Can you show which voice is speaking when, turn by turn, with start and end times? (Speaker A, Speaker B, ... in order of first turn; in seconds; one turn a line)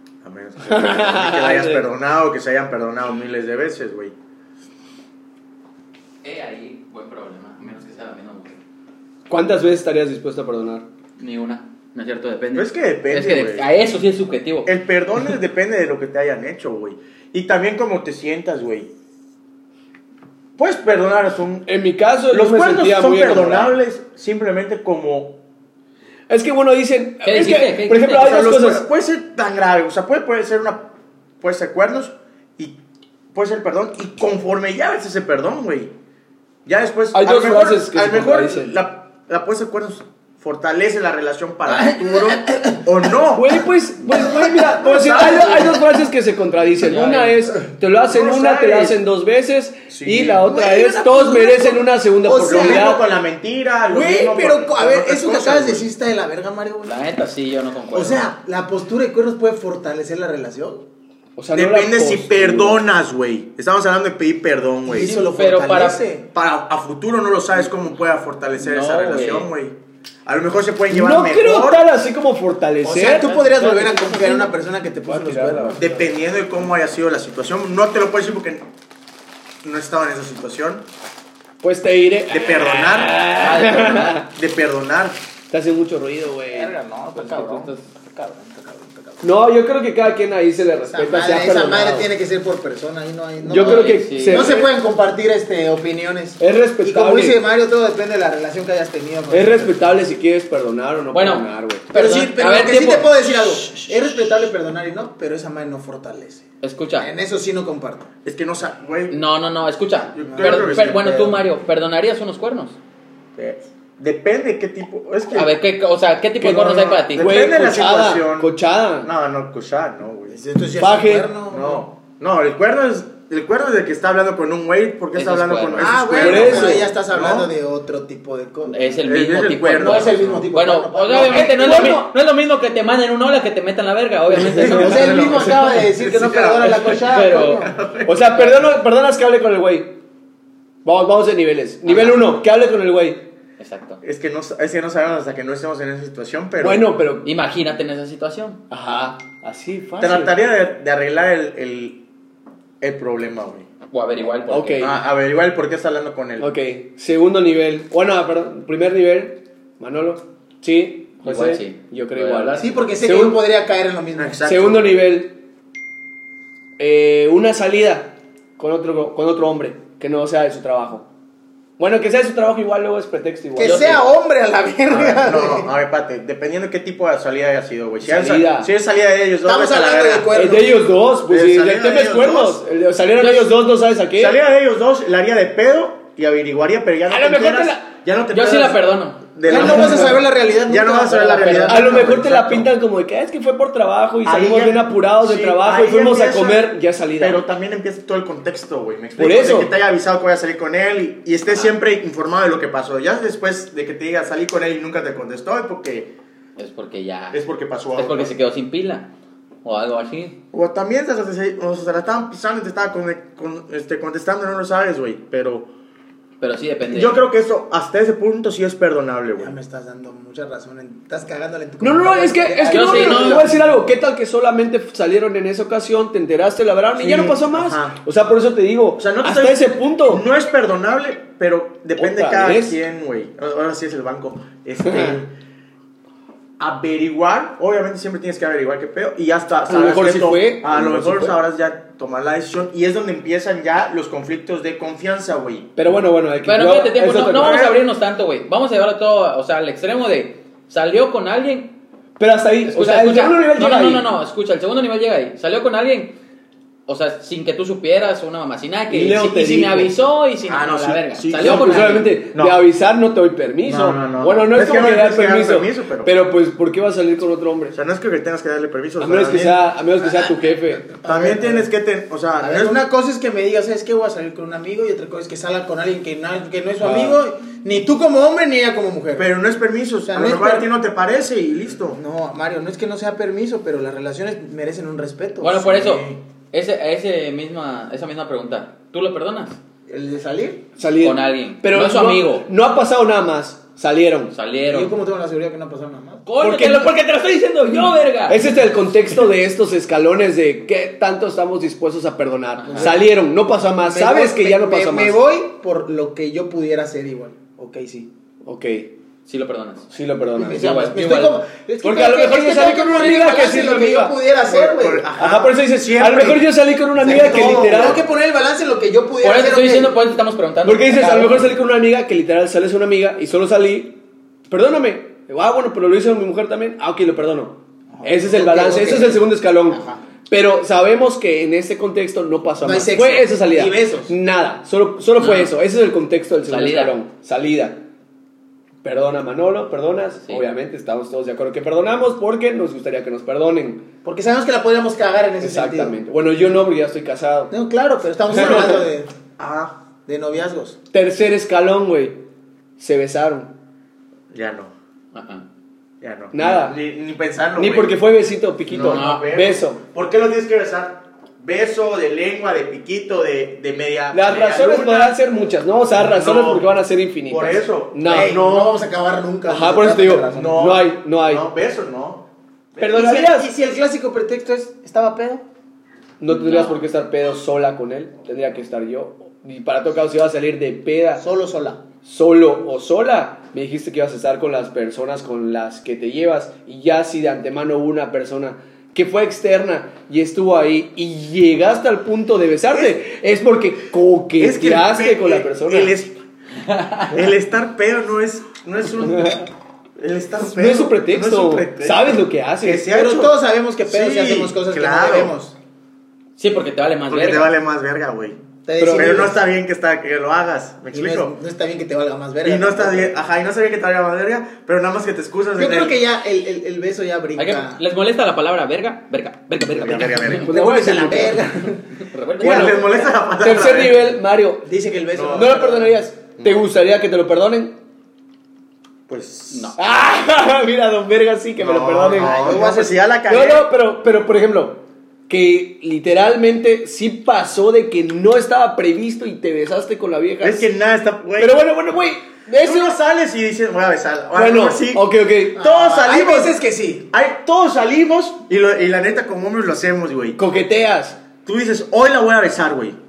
Speaker A: 0.2-4.2
Speaker B: 0.6-1.9
Speaker C: 6.2-8.6
Speaker B: 9.3-10.8
Speaker C: 11.2-14.7
Speaker A: 12.5-13.7
Speaker A: 14.7-18.9
Speaker A: 20.6-21.7
Speaker B: 21.7-23.8
Speaker A: 22.3-25.4
Speaker B: 26.3-28.9
Speaker C: 27.2-28.4
Speaker A: 28.1-30.9
Speaker A: 31.4-32.8
Speaker A: 33.3-35.9
Speaker A: 36.7-46.0
Speaker B: 37.1-38.8
Speaker D: 41.7-42.8
Speaker B: 43.3-53.0
Speaker C: 46.8-47.5
Speaker A: 48.1-49.0
Speaker A: 49.9-50.5
Speaker D: 50.4-53.0
Speaker A: 52.5-55.9
Speaker D: 53.9-57.0
Speaker C: 56.8-58.3
Speaker D: 57.9-60.9
Speaker B: 61.4-62.8
Speaker A: 61.5-65.2
Speaker D: 64.9-66.3
Speaker C: 65.0-66.0
Speaker A: 66.3-71.9
Speaker C: 68.6-69.5
Speaker B: 70.9-74.5
Speaker D: 72.8-76.0
Speaker C: 73.2-74.4
Speaker B: 75.0-75.9
Speaker A: 75.8-78.7
Speaker A: 79.6-80.9
Speaker B: 81.6-84.3
Speaker A: 82.3-83.3
Speaker C: 83.4-84.2
Speaker A: 84.2-85.2
Speaker B: 85.5-86.8
Speaker D: 86.5-89.3
Speaker C: 87.1-87.8
Speaker B: 89.2-92.1
Speaker D: 90.8-99.9
Speaker B: 93.4-94.7
Speaker C: 93.5-94.6
Speaker B: 96.4-97.4
Speaker B: 99.3-101.9
Speaker C: 101.1-103.1
Speaker D: 101.9-106.4
Speaker C: 106.6-107.1
Speaker D: 107.0-108.1
Speaker A: 108.2-109.2
Speaker C: 109.1-112.8
Speaker A: 110.2-111.5
Speaker D: 110.3-110.8
Speaker A: 113.4-115.6
Speaker C: 115.3-117.3
Speaker B: 116.4-119.1
Speaker A: 117.0-120.4
Speaker D: 120.3-121.8
Speaker B: 120.8-121.3
Speaker A: 121.5-127.5
Speaker C: 125.2-126.2
Speaker D: 125.8-129.0
Speaker B: 126.2-126.9
Speaker C: 128.7-135.6
Speaker A: 129.1-130.5
Speaker D: 129.7-131.9
Speaker B: 131.2-132.1
Speaker A: 134.4-138.5
Speaker D: 134.4-137.7
Speaker C: 136.7-137.7
Speaker B: 138.1-140.0
Speaker B: 140.8-143.3
Speaker C: 141.9-142.3
Speaker C: 143.6-144.0
Speaker A: 144.0-146.9
Speaker B: 146.6-147.3
Speaker C: 147.2-148.6
Speaker B: 148.7-150.4
Speaker A: 150.0-152.0
Speaker A: 152.8-153.7
Speaker C: 153.9-155.0
Speaker B: 154.5-154.9
Speaker A: 154.8-156.5
Speaker B: 156.4-163.4
Speaker C: 161.2-162.8
Speaker D: 162.6-164.4
Speaker A: 164.2-165.0
Speaker B: 164.4-165.4
Speaker B: 166.8-171.1
Speaker B: 171.8-174.0
Speaker D: 173.6-175.7
Speaker C: 173.6-174.0
Speaker A: 174.9-180.3
Speaker B: 178.0-178.7
Speaker D: 179.4-180.9
Speaker B: 180.3-184.4
Speaker A: 181.3-182.6
Speaker C: 183.2-183.5
Speaker A: 184.2-188.8
Speaker B: 187.1-187.9
Speaker C: 188.3-190.1
Speaker A: 189.3-192.7
Speaker D: 189.5-192.1
Speaker B: 189.6-189.9
Speaker B: 191.7-197.4
Speaker A: 194.2-206.2
Speaker B: 199.2-199.7
Speaker C: 206.6-209.1
Speaker A: 207.3-208.3
Speaker C: 209.6-210.4
Speaker A: 210.5-215.7
Speaker C: 216.4-217.2
Speaker A: 216.9-219.6
Speaker D: 219.4-223.7
Speaker B: 221.8-230.2
Speaker C: 222.7-223.5
Speaker A: 227.0-228.0
Speaker A: 229.0-235.3
Speaker B: 232.0-232.8
Speaker B: 234.8-235.2
Speaker A: 236.6-245.7
Speaker B: 239.7-241.4
Speaker B: 245.8-247.7
Speaker C: 246.5-251.8
Speaker A: 247.3-247.8
Speaker B: 252.2-254.1
Speaker C: 252.7-256.2
Speaker C: 256.9-262.1
Speaker B: 258.9-259.9
Speaker A: 260.5-262.6
Speaker B: 261.4-267.8
Speaker A: 263.6-266.1
Speaker A: 267.7-269.6
Speaker B: 269.0-270.9
Speaker D: 270.8-271.7
Speaker A: 271.1-272.8
Speaker D: 272.4-279.3
Speaker B: 276.8-277.2
Speaker A: 279.2-282.0
Speaker D: 280.1-280.7
Speaker D: 281.9-285.7
Speaker C: 285.4-289.6
Speaker A: 285.6-286.2
Speaker D: 289.9-290.6
Speaker B: 290.8-294.3
Speaker C: 291.0-292.5
Speaker C: 294.3-294.9
Speaker D: 294.7-296.2
Speaker C: 296.3-298.6
Speaker B: 296.4-296.9
Speaker B: 298.3-305.2
Speaker C: 302.6-303.0
Speaker D: 302.6-303.1
Speaker D: 303.8-308.1
Speaker B: 308.4-308.9
Speaker C: 309.3-309.9
Speaker B: 309.9-310.8
Speaker D: 310.4-315.1
Speaker C: 310.5-311.4
Speaker B: 311.8-314.1
Speaker A: 314.5-316.5
Speaker B: 315.2-318.0
Speaker D: 317.0-320.0
Speaker A: 317.1-318.0
Speaker C: 319.2-321.5
Speaker B: 320.6-337.8
Speaker D: 328.0-330.0
Speaker D: 332.6-334.1
Speaker C: 335.2-335.5
Speaker C: 336.5-336.9
Speaker B: 338.8-343.9
Speaker D: 344.0-346.0
Speaker B: 345.4-347.5
Speaker D: 347.5-349.1
Speaker B: 348.3-348.8
Speaker A: 348.4-348.8
Speaker A: 349.4-349.8
Speaker D: 350.1-350.8
Speaker B: 350.9-352.2
Speaker B: 352.8-353.5
Speaker A: 354.3-354.7
Speaker C: 355.1-355.4
Speaker A: 356.0-358.0
Speaker B: 356.3-356.8
Speaker B: 357.6-359.8
Speaker A: 358.7-365.2
Speaker C: 358.7-359.3
Speaker B: 364.1-368.4
Speaker A: 365.9-366.7
Speaker A: 367.3-368.8
Speaker D: 368.1-370.6
Speaker B: 369.5-371.4
Speaker A: 370.3-372.3
Speaker B: 372.8-373.5
Speaker D: 372.8-375.4
Speaker B: 376.2-381.2
Speaker C: 376.3-376.8
Speaker D: 381.2-381.8
Speaker B: 382.1-396.0
Speaker A: 394.4-396.2
Speaker C: 396.7-397.1
Speaker A: 397.1-405.4
Speaker B: 400.4-402.9
Speaker D: 402.9-405.6
Speaker C: 406.4-407.5
Speaker A: 407.1-408.4
Speaker D: 408.6-409.4
Speaker B: 408.8-409.3
Speaker A: 408.9-411.3
Speaker D: 410.9-413.1
Speaker A: 412.4-416.0
Speaker D: 415.6-417.8
Speaker C: 417.4-420.5
Speaker A: 419.7-420.5
Speaker B: 420.4-421.5
Speaker D: 420.5-421.9
Speaker C: 421.9-423.1
Speaker A: 422.4-424.0
Speaker B: 423.4-424.7
Speaker D: 424.6-425.9
Speaker A: 425.1-425.6
Speaker B: 425.2-427.8
Speaker A: 426.4-426.7
Speaker A: 429.1-429.8
Speaker C: 429.5-429.8
Speaker B: 429.8-432.7
Speaker A: 431.6-433.7
Speaker D: 432.1-433.0
Speaker B: 433.3-440.7
Speaker A: 440.4-441.6
Speaker B: 441.4-443.0
Speaker A: 442.6-446.6
Speaker B: 444.4-445.6
Speaker D: 445.6-447.1
Speaker A: 447.1-450.4
Speaker B: 450.4-451.2
Speaker A: 451.5-453.0